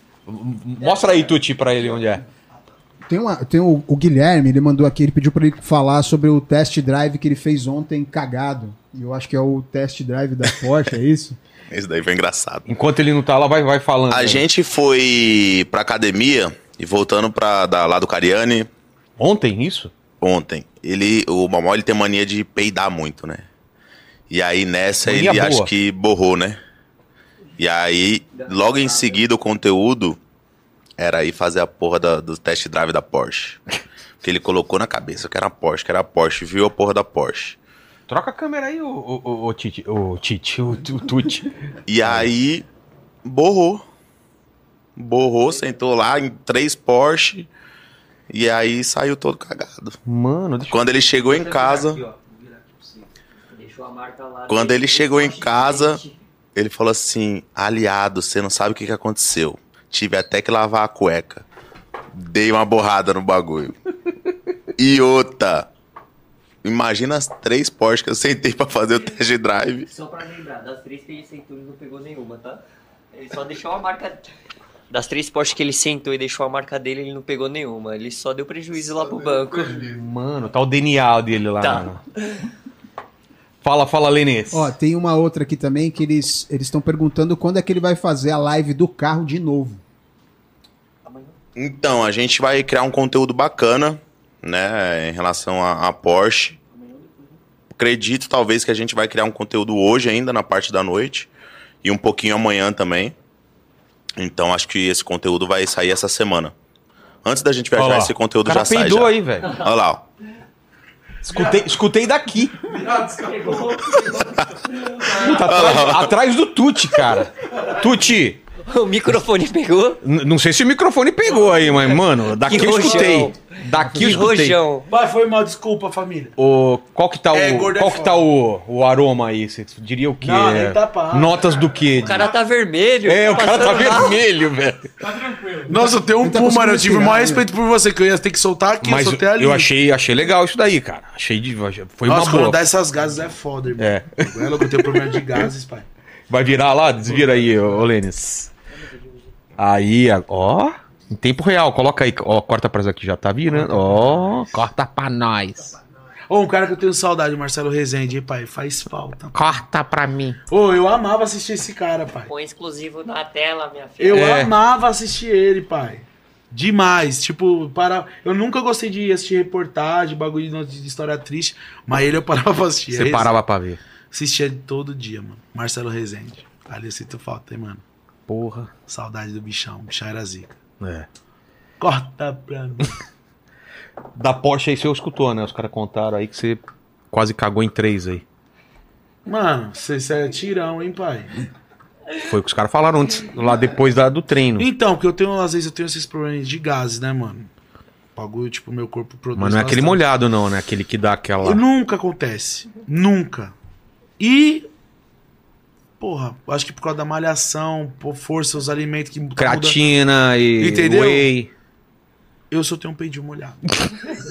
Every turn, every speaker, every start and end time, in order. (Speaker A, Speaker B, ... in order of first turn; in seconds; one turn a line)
Speaker A: 0.3-2.2
Speaker B: 0.8-1.4
Speaker C: 3.1-11.4
Speaker D: 11.7-12.7
Speaker A: 12.7-14.4
Speaker D: 14.1-18.7
Speaker A: 19.2-19.9
Speaker D: 20.2-23.5
Speaker D: 24.3-26.6
Speaker A: 25.1-25.7
Speaker D: 27.6-30.2
Speaker B: 28.4-29.2
Speaker D: 31.0-33.6
Speaker D: 34.2-37.6
Speaker A: 38.1-42.3
Speaker D: 41.9-42.7
Speaker D: 43.2-43.8
Speaker D: 45.0-47.5
Speaker D: 48.3-50.0
Speaker A: 50.1-50.9
Speaker D: 50.7-52.0
Speaker B: 51.3-56.2
Speaker D: 54.5-56.0
Speaker D: 56.5-61.5
Speaker D: 62.1-63.8
Speaker D: 64.8-65.7
Speaker D: 66.6-69.9
Speaker B: 69.9-74.3
Speaker B: 74.9-79.9
Speaker D: 79.2-79.8
Speaker A: 79.9-82.0
Speaker A: 83.6-84.7
Speaker C: 84.5-89.8
Speaker B: 91.1-91.3
Speaker D: 91.6-96.6
Speaker B: 96.7-97.4
Speaker D: 97.7-101.3
Speaker D: 101.8-103.2
Speaker D: 104.2-106.5
Speaker D: 107.2-110.0
Speaker A: 107.8-109.6
Speaker A: 111.2-112.7
Speaker E: 111.3-111.7
Speaker E: 112.7-114.4
Speaker A: 115.0-118.4
Speaker D: 115.3-116.1
Speaker B: 118.6-120.0
Speaker A: 120.0-124.6
Speaker B: 122.4-124.9
Speaker E: 122.8-123.2
Speaker E: 124.9-126.3
Speaker A: 126.4-132.3
Speaker E: 127.3-128.3
Speaker E: 130.2-131.6
Speaker B: 132.0-134.2
Speaker A: 133.1-134.9
Speaker E: 135.3-139.7
Speaker C: 136.2-137.5
Speaker A: 138.8-142.6
Speaker E: 142.1-145.9
Speaker A: 143.8-145.5
Speaker A: 146.3-148.5
Speaker E: 147.1-147.7
Speaker B: 148.7-149.3
Speaker A: 149.6-155.8
Speaker E: 153.5-154.5
Speaker E: 156.3-159.6
Speaker A: 159.3-160.4
Speaker E: 160.5-162.3
Speaker B: 162.3-164.3
Speaker E: 164.0-173.4
Speaker A: 164.1-164.5
Speaker A: 172.9-173.8
Speaker E: 174.1-177.8
Speaker A: 178.3-178.7
Speaker E: 178.9-180.6
Speaker A: 180.8-181.1
Speaker E: 181.8-183.0
Speaker A: 184.2-188.2
Speaker E: 189.3-191.3
Speaker A: 192.2-194.7
Speaker E: 194.6-197.5
Speaker E: 198.2-200.0
Speaker A: 199.4-201.6
Speaker E: 201.4-203.6
Speaker E: 204.2-204.7
Speaker E: 206.0-209.8
Speaker A: 209.4-211.5
Speaker E: 210.6-211.3
Speaker E: 212.5-213.8